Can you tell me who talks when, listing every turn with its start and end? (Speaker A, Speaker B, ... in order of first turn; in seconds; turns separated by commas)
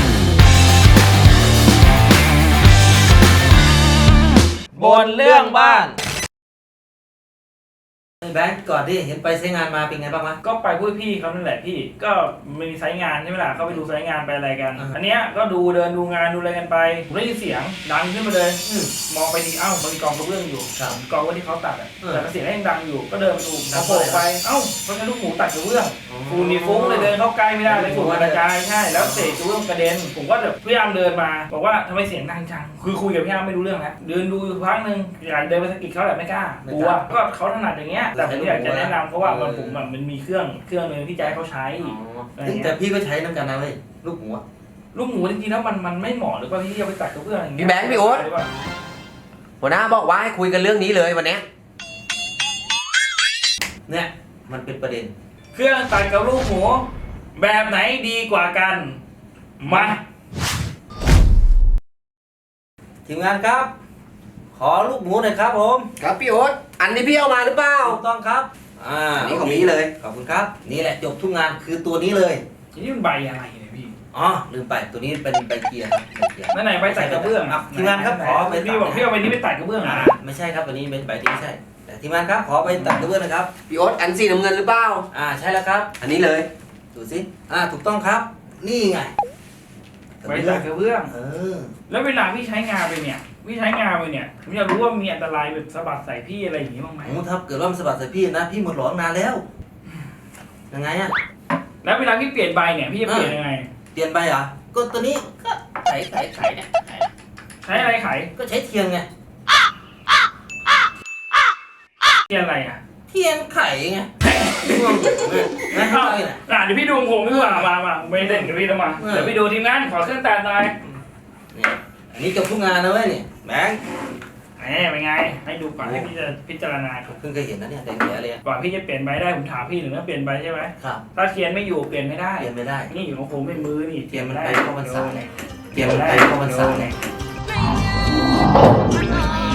Speaker A: 4.7-5.9, Speaker B: 4.8-6.0, Speaker B: 8.2-10.4, Speaker A: 10.4-42.8, Speaker B: 18.6-18.9, Speaker B: 22.0-22.2, Speaker B: 23.7-24.2, Speaker B: 26.1-29.4, Speaker B: 36.6-37.0, Speaker B: 38.1-39.8, Speaker B: 41.2-44.4, Speaker A: 44.9-48.5, Speaker C: 47.6-48.3, Speaker C: 49.6-51.4, Speaker B: 53.9-55.1, Speaker A: 55.5-59.0, Speaker A: 59.6-60.0, Speaker B: 59.7-60.0, Speaker B: 63.1-63.7, Speaker B: 64.5-65.9, Speaker C: 66.0-68.0, Speaker B: 67.8-72.4, Speaker C: 69.2-69.9, Speaker A: 72.7-74.0, Speaker B: 74.1-79.1, Speaker A: 76.5-80.2, Speaker B: 79.8-83.5, Speaker A: 82.7-83.0, Speaker C: 83.7-85.1, Speaker B: 85.1-85.9, Speaker C: 86.0-86.5, Speaker B: 86.9-89.1, Speaker B: 90.2-91.7, Speaker A: 90.2-91.1, Speaker A: 91.9-97.2, Speaker B: 97.0-99.4, Speaker B: 100.7-101.1, Speaker A: 101.8-103.7, Speaker B: 103.0-103.4, Speaker B: 103.9-107.1, Speaker A: 107.6-108.3, Speaker B: 107.7-109.1, Speaker A: 112.3-112.8, Speaker B: 113.1-114.1, Speaker A: 114.2-120.8, Speaker B: 114.7-116.4, Speaker B: 117.3-119.4, Speaker B: 121.5-123.8, Speaker A: 124.6-127.2, Speaker B: 125.8-126.2, Speaker B: 127.1-128.4, Speaker A: 128.4-137.0, Speaker B: 132.4-132.9, Speaker B: 134.1-135.2, Speaker B: 135.7-136.9